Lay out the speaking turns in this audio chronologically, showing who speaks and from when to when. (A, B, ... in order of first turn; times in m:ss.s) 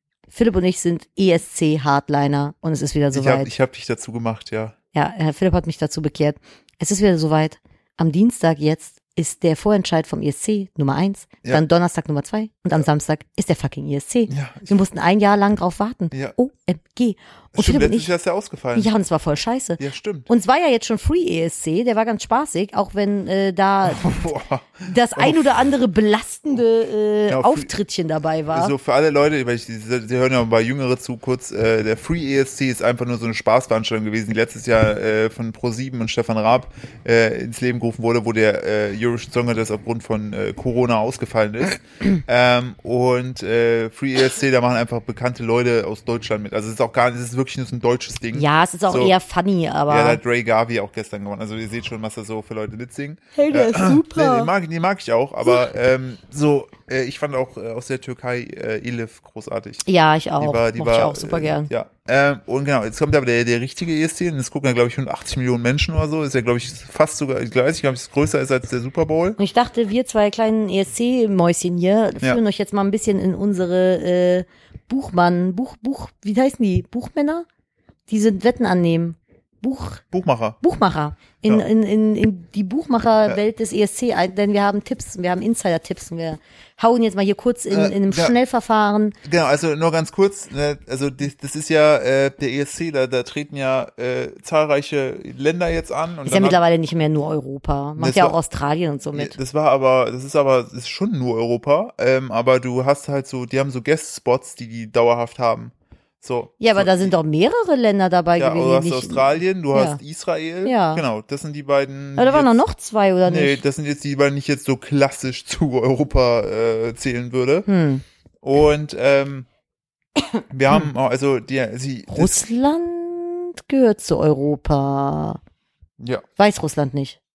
0:00.3-0:03.5 A
0:03.1-0:04.7 B
0:04.9-0:18.1 A
0:14.3-0:14.8 B
0:17.5-0:18.9 B
0:18.7-0:24.3 A
0:19.8-0:20.3 B
0:23.8-0:25.6 B
0:24.8-0:28.7 A
0:27.3-0:27.7 B
0:28.5-0:49.1 B
0:48.3-0:50.2 A
0:49.9-0:59.8 B
0:53.3-0:54.5 A
0:59.8-1:01.7 A
1:00.4-1:09.4 B
1:09.4-1:17.4 A
1:18.1-1:20.0 A
1:20.1-1:20.6 B
1:20.6-1:29.2 A
1:27.7-1:28.3 B
1:29.2-1:36.6 B
1:36.2-1:39.4 A
1:38.0-1:38.4 B
1:39.1-1:47.2 B
1:46.6-1:50.0 A
1:48.4-1:52.6 B
1:50.6-1:51.0 A
1:52.2-1:53.6 A
1:53.2-1:57.7 B
1:57.7-1:58.0 A
1:58.4-1:59.5 B
2:00.2-2:00.8 A
2:00.5-2:02.4 B
2:02.1-2:05.4 A
2:06.4-2:07.2 A